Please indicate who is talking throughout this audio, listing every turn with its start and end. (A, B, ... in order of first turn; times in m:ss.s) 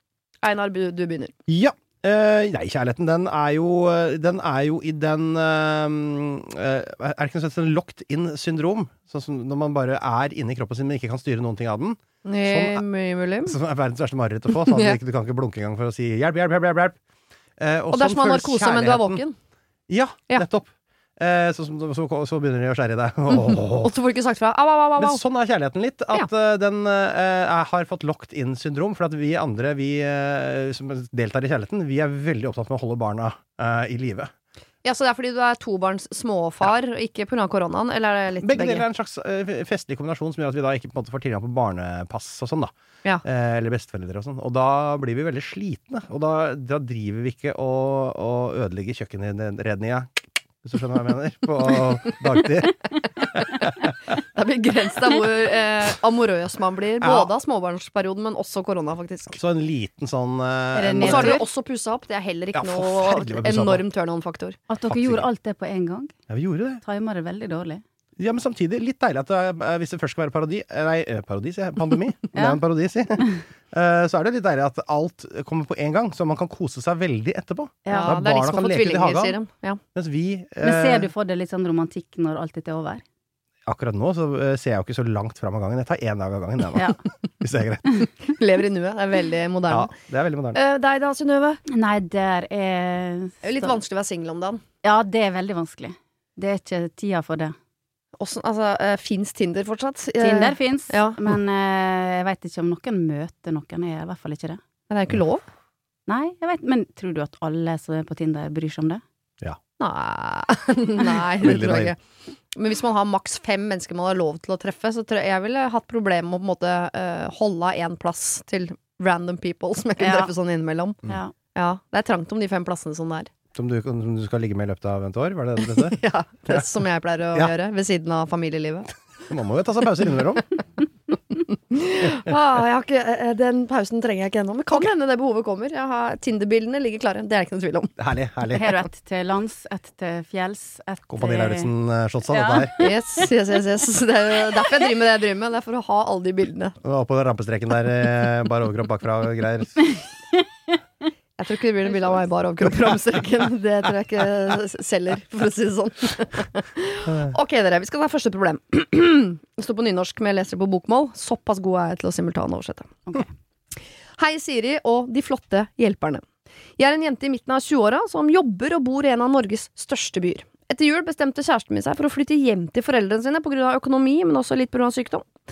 0:00.4-0:01.3 A
0:01.5-0:12.8 B
0:12.2-0:13.6 A
0:13.4-0:17.0 B
0:14.5-0:15.0 A
0:17.6-0:19.2 B
0:17.9-0:19.4 A
0:19.9-0:23.9 B
0:23.3-0:25.2 A
0:25.0-0:34.3 B
0:34.8-0:38.8 A
0:38.4-0:42.7 B
0:43.2-0:52.8 B
0:53.3-0:53.7 B
0:54.3-0:59.4 A
0:57.0-0:57.3 B
0:59.3-1:01.4 B
1:00.7-1:01.4 C
1:01.0-1:04.6 A
1:02.5-1:03.8 B
1:04.7-1:06.2 C
1:04.9-1:05.3 B
1:06.3-1:06.8 B
1:06.8-1:07.8 C
1:08.2-1:19.4 B
1:17.8-1:18.2 C
1:17.9-1:19.8 A
1:19.9-1:21.1 B
1:20.6-1:23.0 C
1:23.6-1:27.9 B
1:28.3-1:29.9 A
1:29.7-1:30.6 B
1:30.5-1:31.6 A
1:31.7-1:33.7 C
1:33.4-1:34.6 A
1:34.8-1:37.5 C
1:38.2-1:41.2 A
1:40.2-1:44.6 C
1:44.9-1:45.4 A
1:46.1-1:49.0 C
1:49.8-1:52.0 A
1:51.4-1:51.9 B
1:52.5-2:01.0 A
2:00.0-2:00.3 C
2:01.1-2:01.3 C
2:01.5-2:03.3 A
2:03.5-2:06.6 B
2:05.8-2:08.9 A
2:09.3-2:10.4 B
2:11.7-2:17.9 A
2:18.0-2:18.8 B
2:18.5-2:21.7 C
2:21.1-2:22.9 B
2:22.3-2:23.2 C
2:22.8-2:26.8 A
2:26.8-2:29.9 B
2:30.0-2:30.7 C
2:31.4-2:42.9 A
2:37.1-2:37.3 B
2:44.2-2:46.2 A
2:46.8-2:55.2 A